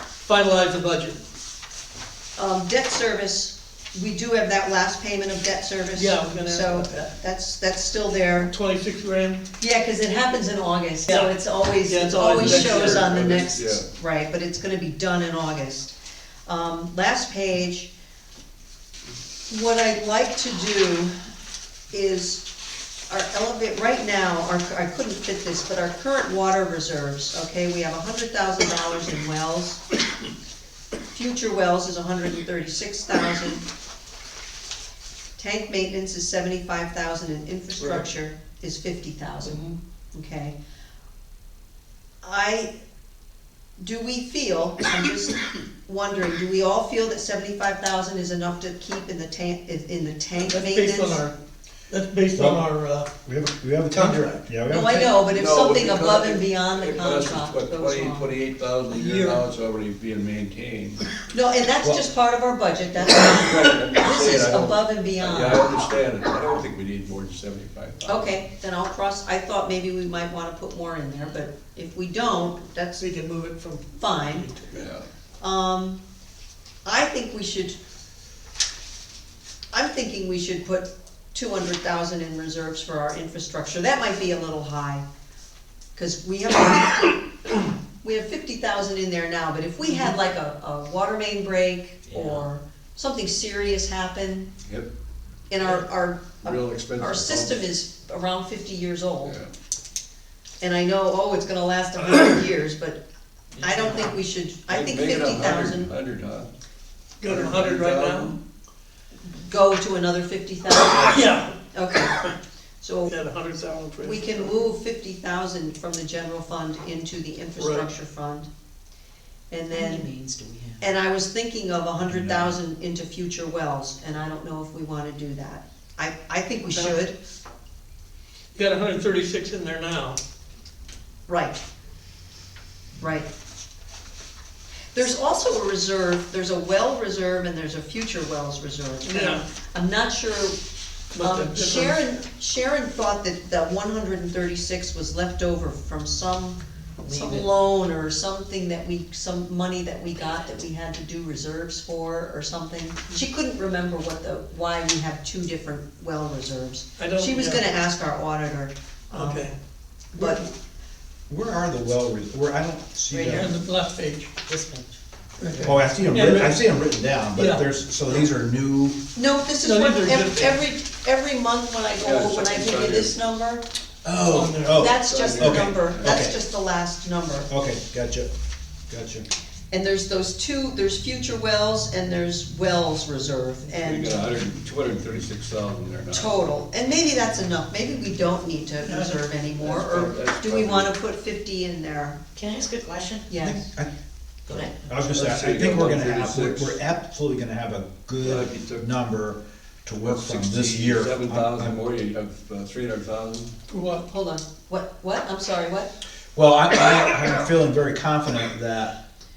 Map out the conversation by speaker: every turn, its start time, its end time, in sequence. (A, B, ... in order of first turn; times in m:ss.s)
0:00.2-0:01.2 A
0:02.4-0:08.5 B
0:05.9-0:07.1 A
0:08.5-0:09.4 A
0:09.6-0:15.9 B
0:11.1-0:13.1 A
0:12.3-0:13.9 C
0:16.4-0:17.9 B
0:19.5-0:21.1 B
0:21.9-0:22.4 B
0:23.1-0:29.8 B
0:31.1-0:33.6 B
0:35.4-0:39.6 B
0:39.5-0:39.7 A
0:40.1-0:40.6 B
0:42.2-0:42.7 B
0:43.8-0:51.2 B
0:50.4-0:51.4 A
0:51.9-0:53.1 A
0:52.3-0:52.7 D
0:53.2-0:55.1 D
0:53.9-0:54.4 A
0:54.7-0:58.3 B
0:55.2-1:01.0 C
0:58.9-0:59.4 A
1:01.3-1:05.6 B
1:03.2-1:08.3 C
1:08.0-1:13.0 B
1:13.0-1:14.8 A
1:13.9-1:14.5 B
1:14.7-1:15.1 C
1:15.4-1:16.0 B
1:16.8-1:17.8 B
1:19.7-1:25.0 B
1:26.0-1:27.2 B
1:28.0-1:34.5 B
1:32.1-1:32.4 E
1:34.6-1:34.9 C
1:35.5-1:39.4 B
1:36.4-1:37.7 C
1:39.2-1:39.5 C
1:40.6-1:43.0 B
1:43.5-1:44.1 C
1:43.6-1:45.9 B
1:44.7-1:46.5 C
1:47.2-1:48.4 A
1:47.2-1:48.4 C
1:49.5-1:52.2 B
1:50.8-1:51.5 A
1:52.8-1:53.1 B
1:53.0-1:54.5 A
1:54.0-1:58.5 B
1:57.6-1:57.9 A
1:59.5-2:00.1 B
1:59.7-2:00.9 E
2:00.8-2:07.2 B
2:02.0-2:02.5 D
2:08.5-2:10.2 A
2:11.3-2:11.6 B
2:13.0-2:13.3 B
2:14.9-2:20.6 B
2:19.0-2:19.4 A
2:21.1-2:22.1 A
2:21.1-2:39.4 B
2:27.0-2:27.5 E
2:37.0-2:37.7 A
2:39.1-2:39.6 A
2:40.1-2:40.5 B
2:41.3-2:43.5 D
2:43.1-2:43.5 E
2:43.3-2:44.3 A
2:44.5-2:45.0 E
2:45.4-2:46.6 A
2:45.6-2:49.0 D
2:47.3-2:47.6 A
2:49.1-2:53.6 B
2:49.6-2:50.6 A
2:52.0-2:53.1 C
2:54.0-2:56.4 D
2:54.2-2:54.8 A
2:54.6-2:57.5 B
2:54.9-2:56.2 C
2:57.5-2:58.3 D
2:58.9-2:59.3 D
2:59.7-3:04.3 B
3:03.7-3:06.5 C
3:06.1-3:12.2 B
3:08.8-3:09.3 A
3:09.5-3:10.9 C
3:12.3-3:13.3 E
3:13.3-3:13.7 B
3:13.4-3:13.9 D
3:14.5-3:14.8 E
3:14.9-3:21.8 D
3:14.9-3:16.8 C
3:18.2-3:18.8 C
3:20.0-3:23.5 C
3:23.7-3:24.1 A
3:24.1-3:25.9 B
3:26.3-3:28.9 D